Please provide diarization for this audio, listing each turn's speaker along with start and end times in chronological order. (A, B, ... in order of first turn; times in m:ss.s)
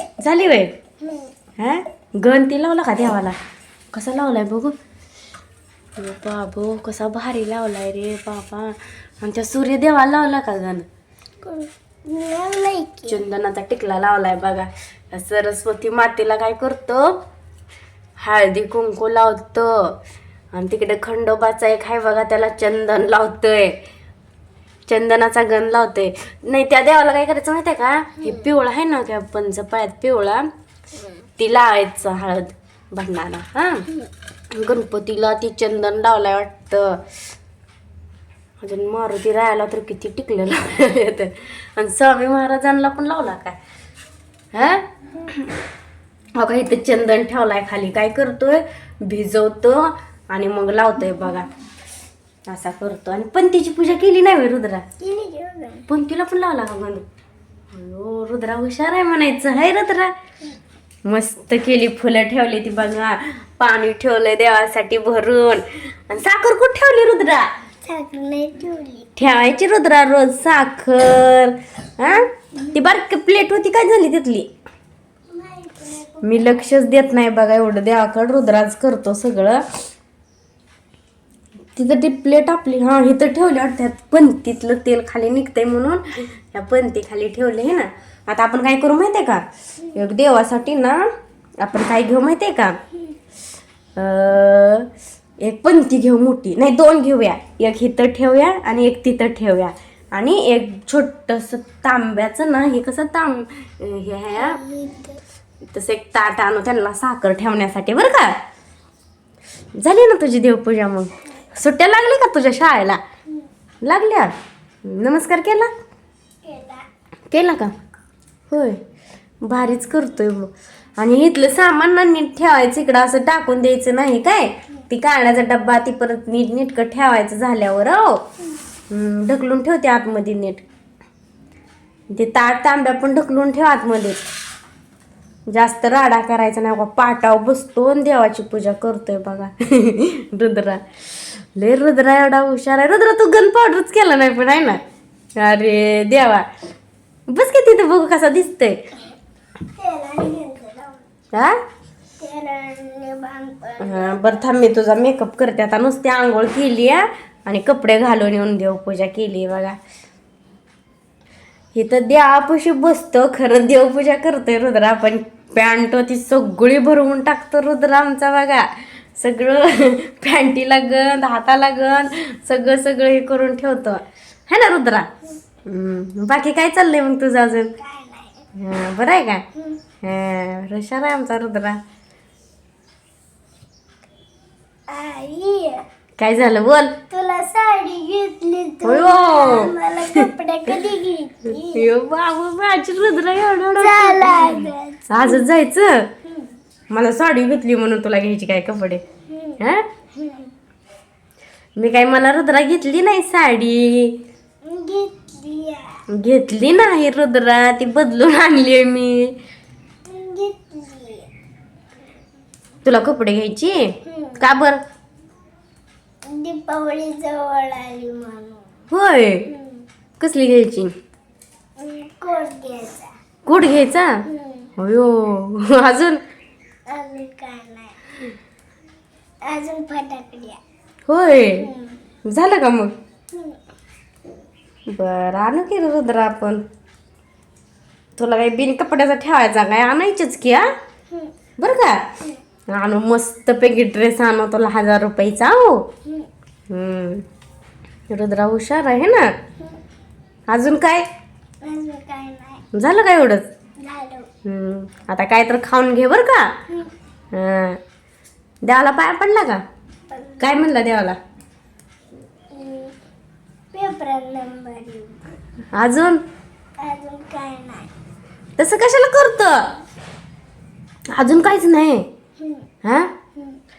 0:00.2-0:00.7 A
0:01.6-0:03.4 A
0:03.9-0:04.8 A
0:06.0-0:10.9 A
0:11.4-0:13.2 B
0:13.1-0:17.2 A
0:18.2-0:20.0 A
0:20.5-0:23.8 A
0:24.9-0:30.5 A
0:31.4-0:33.9 A
0:34.5-0:37.0 A
0:38.6-0:43.6 A
0:44.5-0:45.5 A
0:46.4-0:51.5 A
0:52.5-0:54.8 A
0:55.0-0:55.9 B
0:55.9-0:57.0 A
0:57.7-1:00.1 A
1:01.1-1:07.5 A
1:07.8-1:09.2 B
1:09.2-1:14.5 A
1:15.3-1:16.7 B
1:16.2-1:19.6 A
1:21.8-1:31.0 A
1:31.6-1:32.8 A
1:34.0-1:34.9 A
1:35.4-1:44.6 A
1:44.4-1:45.2 B
1:45.7-1:48.4 A
1:49.8-1:53.0 A
1:53.8-1:54.3 A
1:54.8-1:55.7 A
1:56.4-1:56.8 B
1:57.3-1:57.7 A
1:58.5-1:58.8 A
1:59.4-2:08.2 A
2:08.9-2:10.6 A
2:12.1-2:14.2 A
2:15.5-2:20.8 A
2:21.4-2:24.8 A
2:25.4-2:26.5 A
2:27.3-2:28.8 A
2:29.8-2:31.1 B
2:32.2-2:34.4 B
2:33.8-2:39.8 A
2:41.8-2:55.1 A
2:55.7-2:57.8 A
2:57.8-2:58.4 B
2:58.6-2:59.4 A
3:00.0-3:01.8 A
3:04.9-3:05.8 B
3:06.2-3:07.0 A
3:07.1-3:11.9 B
3:08.8-3:10.3 A
3:11.7-3:16.1 A
3:13.8-3:15.4 B
3:16.9-3:19.0 A
3:19.3-3:19.6 B
3:19.6-3:19.8 A
3:20.2-3:20.5 B
3:21.8-3:24.2 A
3:24.6-3:26.0 B
3:26.1-3:29.4 A
3:30.1-3:31.3 B
3:32.8-3:34.8 A
3:34.1-3:34.4 B
3:36.3-3:38.6 B
3:38.9-3:39.5 A
3:39.5-3:39.8 B
3:40.2-3:40.9 A
3:41.8-3:43.1 B
3:43.5-3:44.2 A
3:44.3-3:44.7 B
3:44.8-3:46.2 A
3:46.9-3:48.0 B
3:49.4-3:50.6 B
3:51.1-3:51.7 A
3:51.6-3:52.0 B
3:52.2-3:52.9 A
3:53.3-3:53.6 B
3:54.9-3:56.6 A
3:58.2-4:00.7 A
4:01.6-4:02.0 A
4:02.7-4:05.9 A
4:06.7-4:07.2 A
4:08.1-4:09.3 A
4:10.5-4:11.1 A
4:11.6-4:12.6 B
4:12.7-4:13.5 A
4:13.8-4:14.3 B
4:14.4-4:16.6 A
4:17.3-4:17.8 A
4:18.6-4:19.6 A
4:20.1-4:20.5 B
4:20.4-4:21.2 A
4:22.5-4:23.0 B
4:23.7-4:25.3 B
4:25.7-4:26.2 A
4:26.8-4:27.9 B
4:28.6-4:29.7 A
4:31.1-4:32.1 A
4:32.4-4:32.7 B
4:32.8-4:33.1 A